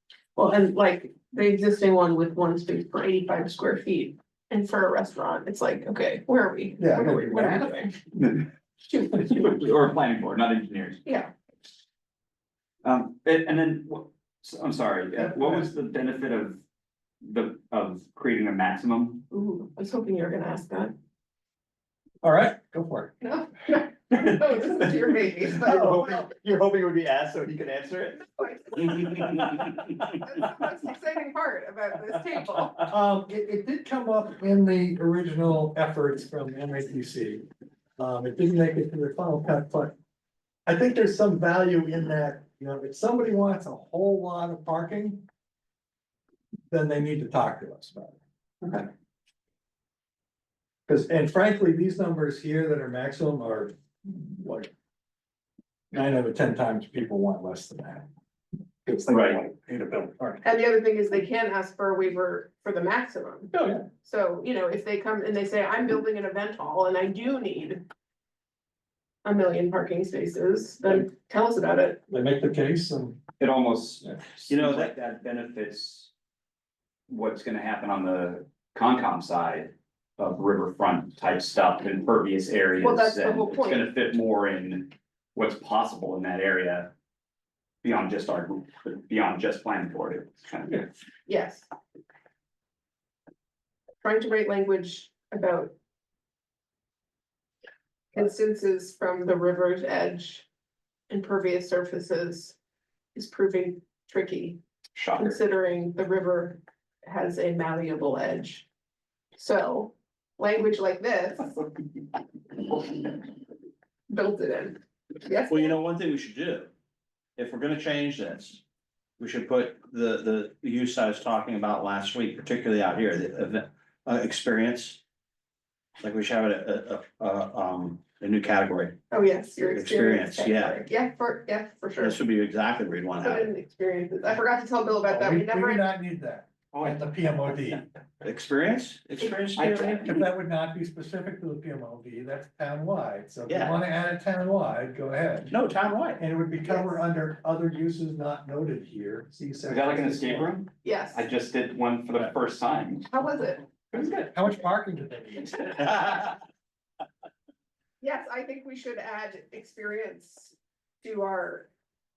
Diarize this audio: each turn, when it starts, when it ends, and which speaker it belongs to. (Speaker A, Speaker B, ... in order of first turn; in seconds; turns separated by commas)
Speaker A: 0.3-8.0, Speaker B: 6.8-7.8, Speaker C: 8.1-8.5, Speaker A: 8.9-9.5, Speaker C: 9.0-11.0, Speaker A: 11.1-11.3, Speaker C: 12.8-16.6, Speaker B: 15.2-15.7, Speaker C: 17.2-19.2, Speaker A: 19.3-20.9, Speaker B: 22.2-23.1, Speaker A: 23.2-25.9, Speaker C: 25.3-28.2, Speaker B: 25.6-26.2, Speaker A: 28.4-32.9, Speaker C: 28.8-30.0, Speaker B: 32.8-37.5, Speaker B: 38.0-39.9, Speaker B: 40.6-45.2, Speaker B: 46.7-48.2, Speaker B: 50.9-54.7, Speaker B: 55.9-58.0, Speaker B: 58.8-60.4, Speaker C: 59.1-59.4, Speaker A: 60.4-67.8, Speaker B: 63.5-63.8, Speaker A: 69.2-72.0, Speaker B: 72.1-73.2, Speaker C: 73.4-76.1, Speaker D: 74.5-74.9, Speaker C: 77.1-86.9, Speaker A: 82.8-83.9, Speaker C: 87.8-90.9, Speaker A: 91.2-91.7, Speaker A: 94.0-95.7, Speaker A: 98.1-100.5, Speaker A: 101.1-102.5, Speaker A: 103.1-104.6, Speaker C: 104.9-105.4, Speaker A: 105.2-108.7, Speaker A: 109.4-111.6, Speaker A: 112.7-113.1, Speaker A: 114.1-115.7, Speaker D: 115.5-116.7, Speaker D: 117.4-118.6, Speaker D: 119.2-125.0, Speaker D: 126.0-128.9, Speaker A: 129.1-132.2, Speaker D: 129.7-130.8, Speaker D: 132.0-133.5, Speaker A: 133.2-135.9, Speaker B: 135.1-137.8, Speaker D: 136.7-137.0, Speaker D: 138.2-140.1, Speaker C: 139.6-140.1, Speaker B: 140.0-145.5, Speaker D: 143.5-143.8, Speaker D: 145.5-146.2, Speaker B: 146.2-150.6, Speaker A: 146.6-147.0, Speaker C: 149.7-153.1, Speaker A: 150.8-151.2, Speaker A: 153.1-153.6, Speaker B: 153.9-156.3, Speaker A: 158.0-161.7